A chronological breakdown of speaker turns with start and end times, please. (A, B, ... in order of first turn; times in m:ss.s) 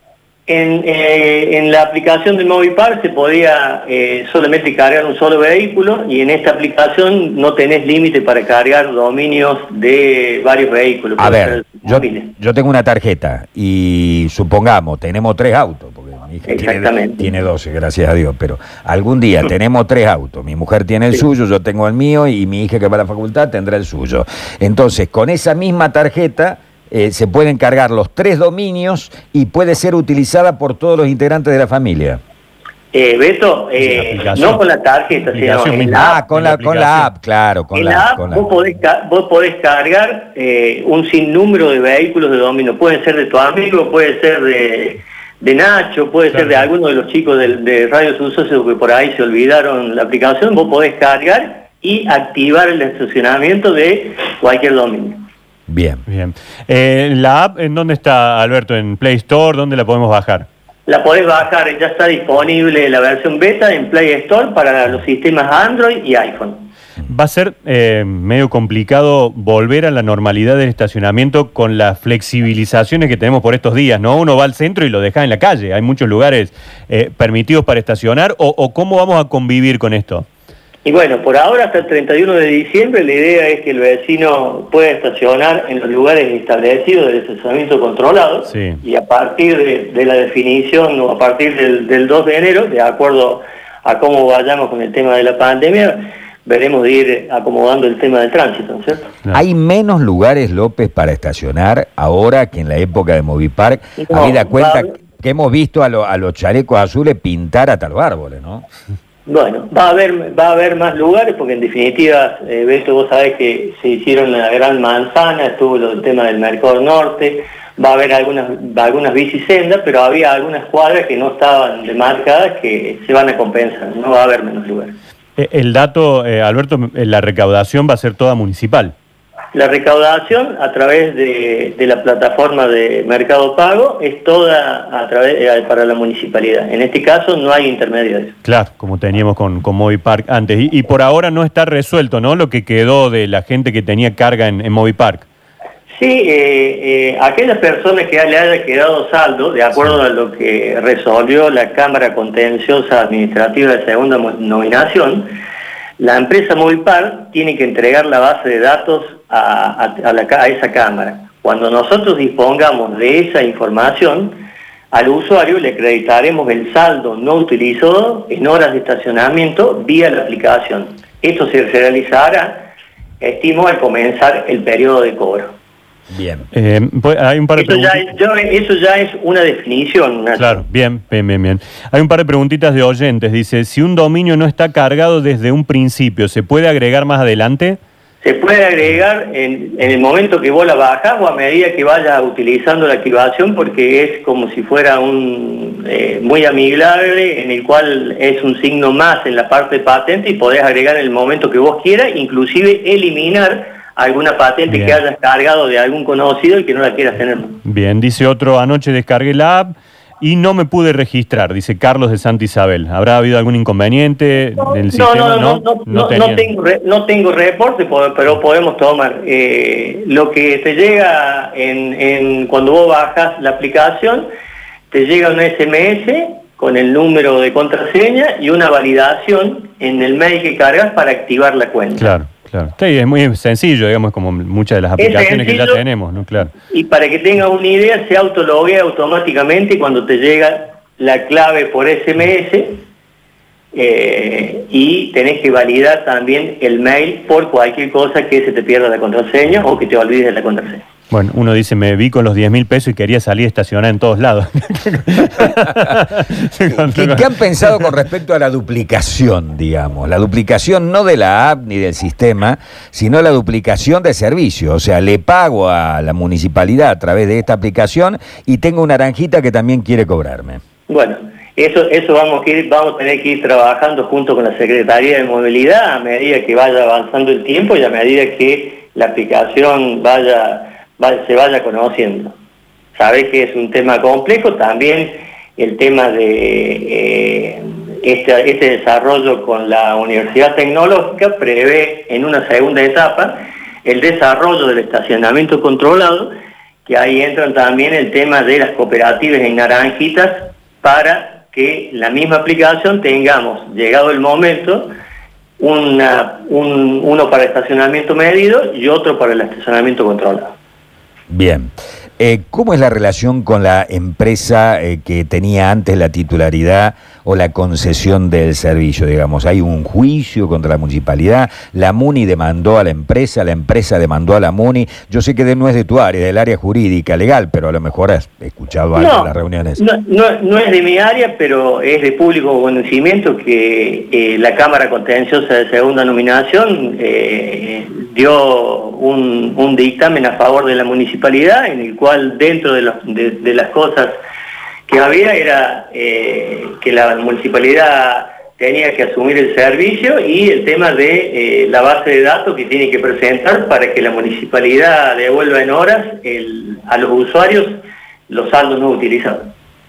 0:00.5-0:12.3 A
0:11.2-0:32.2 B
0:16.5-0:17.3 A
0:32.9-0:36.1 A
0:33.8-0:34.6 C
0:35.3-0:37.1 C
0:35.9-0:38.5 B
0:37.7-0:55.2 A
0:46.3-0:46.7 C
0:55.7-0:56.0 B
0:56.1-1:00.5 C
1:00.9-1:06.7 A
1:07.0-1:20.3 C
1:20.8-1:39.1 A
1:28.5-1:28.8 C
1:39.3-1:48.6 B
1:44.0-1:44.9 A
1:49.2-2:05.0 A
2:05.4-2:08.9 C
2:09.5-2:18.4 A
2:18.4-2:25.2 C
2:26.0-2:35.4 A
2:36.0-2:55.5 A
2:56.1-2:56.5 B
2:56.5-2:58.1 C
2:57.6-3:00.6 A
3:00.4-3:07.8 C
3:08.2-3:27.6 A
3:24.7-3:25.0 C
3:27.6-3:36.4 C
3:34.6-3:44.3 A
3:44.9-3:52.1 A
3:52.0-3:56.5 C
3:55.0-3:55.8 A
3:56.7-4:02.8 A
4:03.7-4:10.8 A
4:11.1-4:17.9 C
4:16.9-4:30.6 B
4:30.9-4:42.3 A
4:42.9-4:56.3 A
4:56.8-5:04.9 A
5:05.6-5:10.5 A
5:11.3-5:29.8 B
5:28.9-5:44.2 A
5:44.9-5:59.5 A